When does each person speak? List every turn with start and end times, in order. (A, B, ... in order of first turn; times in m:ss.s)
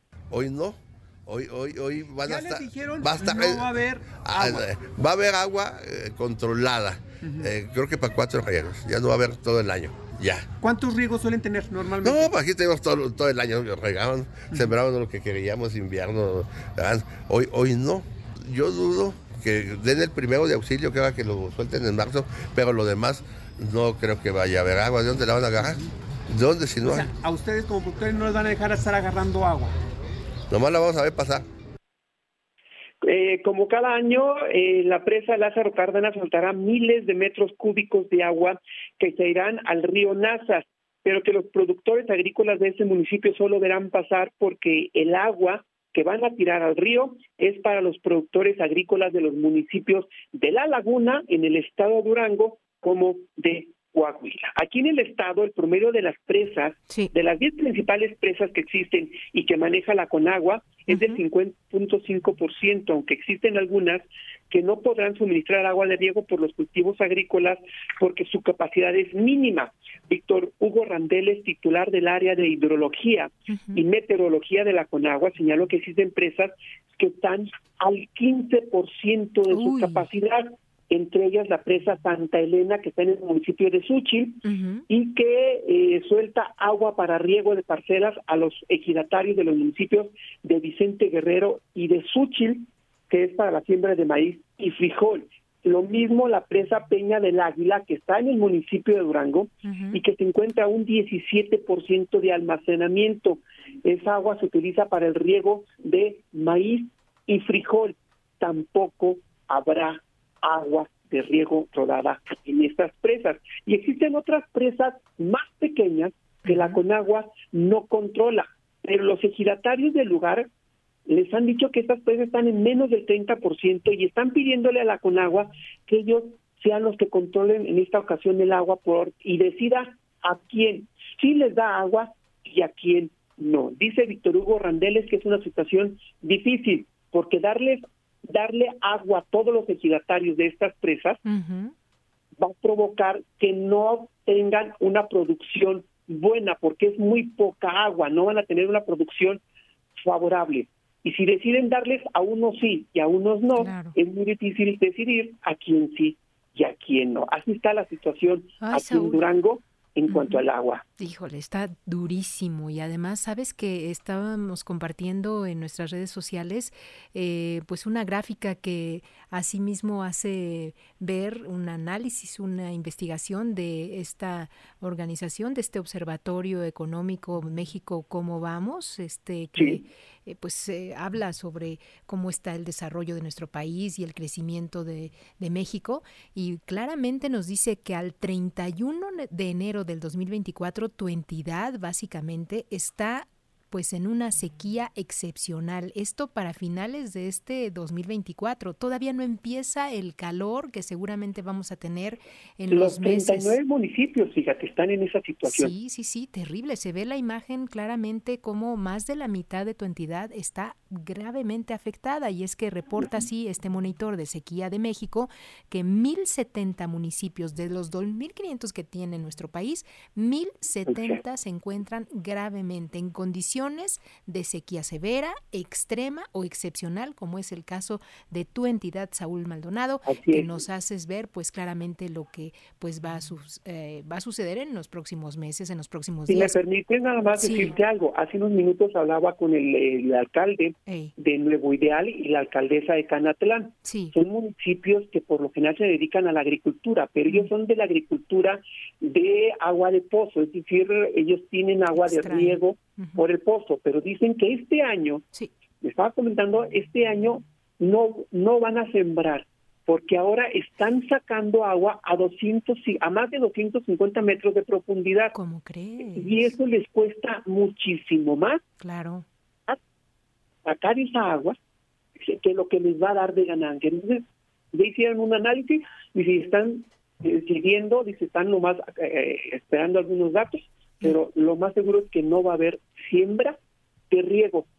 0:00.3-0:10.5 A
0:02.2-0:04.7 B
0:07.2-0:07.5 B
0:10.6-0:12.3 B
0:12.0-0:27.1 A
0:26.8-0:29.8 B
0:30.5-0:31.5 A
0:33.0-2:00.5 C
1:00.9-1:01.2 D
1:13.5-1:13.8 D
1:19.5-1:20.1 D
1:24.4-1:24.8 D
1:39.6-1:40.0 D
1:56.4-1:56.8 D
2:01.1-2:21.2 C
2:21.2-2:21.7 D
2:22.4-2:29.4 C
2:30.0-2:40.8 C
2:33.6-2:33.9 D
2:38.6-2:39.2 D
2:40.1-2:40.4 D
2:41.0-3:23.6 D
2:59.6-2:59.8 C
3:22.7-3:25.7 C
3:25.4-3:56.6 D
3:40.9-3:41.2 C
3:50.1-3:50.5 C
3:56.3-4:15.2 C
3:57.4-3:57.8 D
4:00.8-4:01.1 D
4:03.8-4:04.2 D
4:11.9-4:13.2 D
4:15.8-4:25.4 C
4:25.3-4:26.5 D
4:26.0-4:28.6 C
4:28.8-4:29.2 D
4:30.6-4:31.6 C
4:32.2-4:43.6 C
4:44.1-4:44.7 C